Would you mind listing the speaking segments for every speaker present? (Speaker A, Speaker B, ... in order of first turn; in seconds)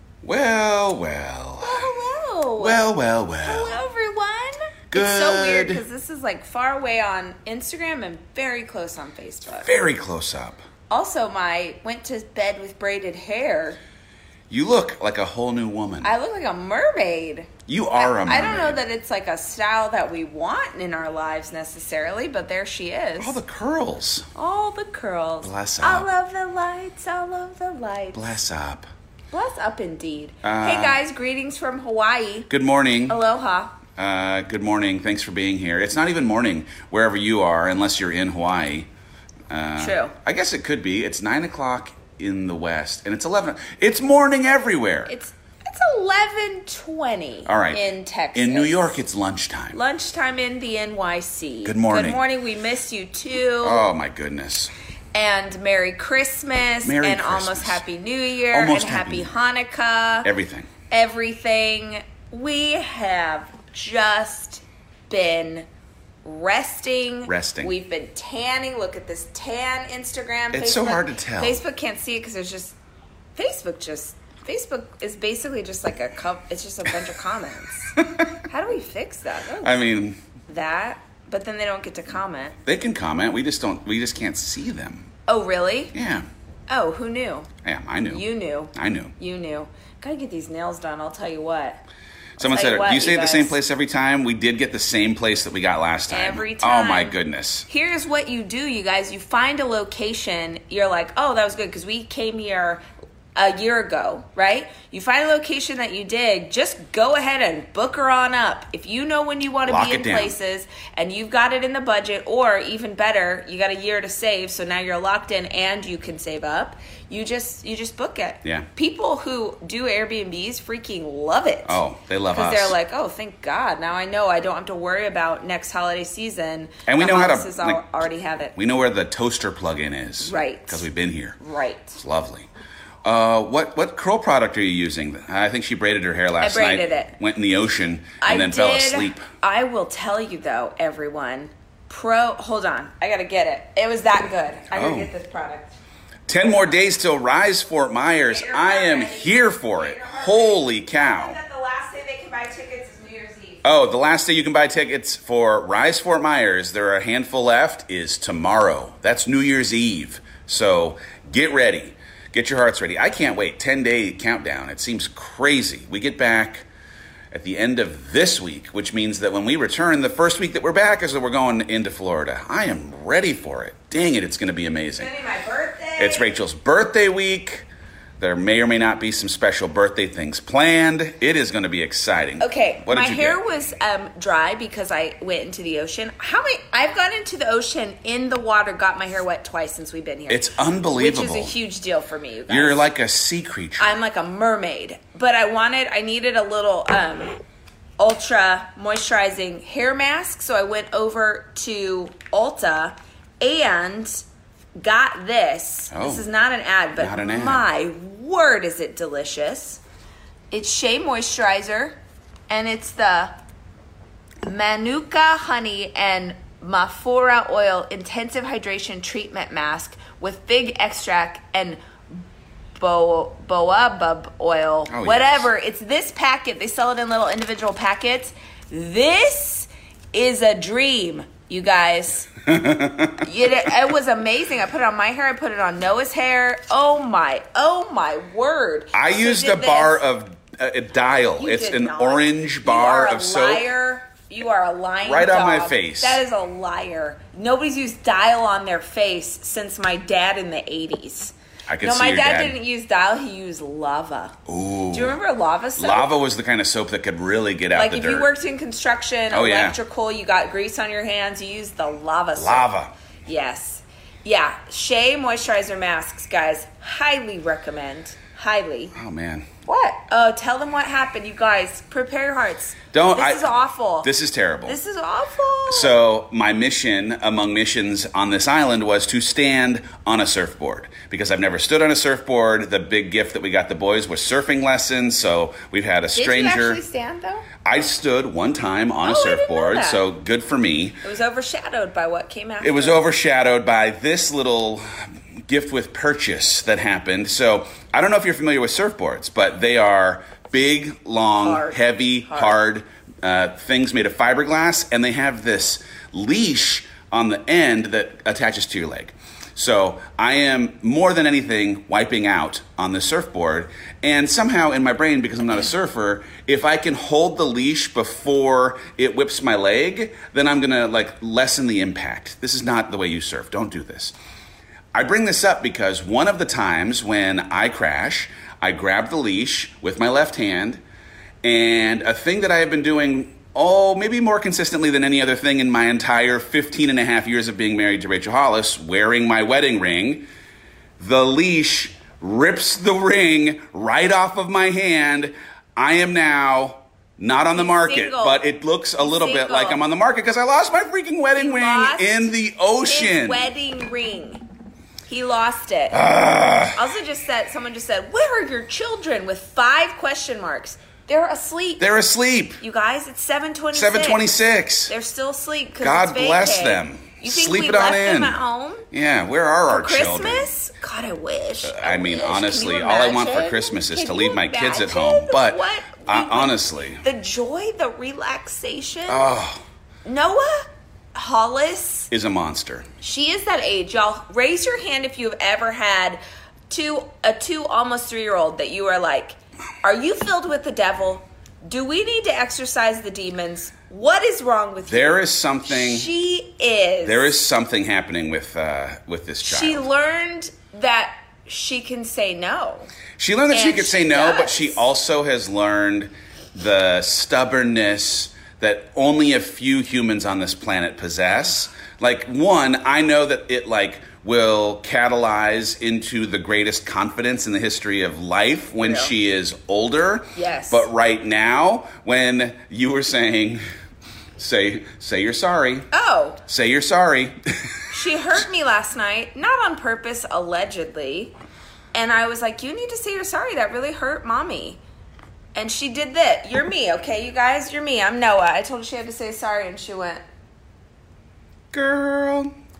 Speaker A: 0.2-1.9, 2.6-3.8, 4.9-5.8, 9.6-10.6, 14.5-16.1, 17.7-18.8, 23.2-24.3, 25.4-26.1, 28.1-28.9, 30.4-31.0, 32.5-33.2, 34.0-38.9, 39.5-45.1, 47.5-49.8, 51.6-52.2, 53.6-54.7, 56.8-57.8, 58.5-59.3, 60.2-60.7, 67.2-67.7, 70.5-71.6, 78.0-78.3, 79.6-80.2, 82.7-85.1, 85.9-86.3, 87.6-89.1, 92.4-97.7, 109.7-110.3, 121.7-122.7, 126.8-127.8, 128.6-131.4, 132.0-132.5, 133.0-139.2, 144.7-145.1, 146.3-151.4, 153.6-166.6, 167.3-175.1, 176.0-177.7, 178.2-183.4, 190.3-191.5, 192.5-193.9, 205.9-206.2, 207.0-207.7, 224.9-225.5, 232.4-233.3, 238.9-243.7, 245.0-246.2, 251.7-252.6, 254.5-255.2, 255.8-258.3, 259.3-259.8, 262.4-262.9, 268.9-269.5, 272.9-273.5, 274.0-274.8, 275.7-286.8, 287.6-291.0, 292.6-324.1, 324.9-330.8, 331.4-340.2, 341.0-353.5, 355.9-356.8, 361.8-362.6, 363.7-364.9, 365.8-368.4, 368.9-370.5, 371.6-377.0, 379.1-379.6, 382.1-382.9, 394.9-396.1, 397.0-399.9, 403.2-423.6, 424.4-425.9, 426.5-427.8, 441.7-442.5
Speaker B: 1.6-2.8, 3.4-9.7, 10.9-13.8, 16.0-23.4, 24.3-28.2, 29.3-32.5, 33.1-33.7, 39.8-40.1, 45.1-48.9, 49.7-53.8, 55.1-60.3, 60.9-65.7, 66.2-72.8, 73.3-79.7, 80.5-82.6, 85.3-85.9, 86.7-87.5, 88.1-91.8, 92.4-93.6, 96.1-102.8, 103.3-128.5, 130.2-130.9, 131.4-132.0, 136.4-137.1, 138.2-145.7, 148.2-153.6, 175.0-176.3, 182.4-192.9, 193.8-197.3, 198.0-204.2, 204.8-209.8, 210.5-212.0, 212.5-213.3, 214.4-222.2, 222.8-232.3, 233.2-240.0, 241.4-254.3, 254.9-256.1, 257.7-262.7, 263.2-268.9, 269.6-274.1, 274.6-275.9, 286.1-287.5, 289.0-290.0, 291.0-293.1, 301.4-302.6, 347.5-348.4, 349.0-349.8, 351.3-354.4, 355.1-356.1, 356.7-361.9, 362.6-364.3, 364.9-368.9, 369.7-379.4, 380.0-382.1, 383.0-397.4, 399.4-402.9, 403.5-404.9, 418.8-419.1, 420.3-420.9, 425.9-426.4, 427.9-431.3, 431.9-434.8, 435.5-440.2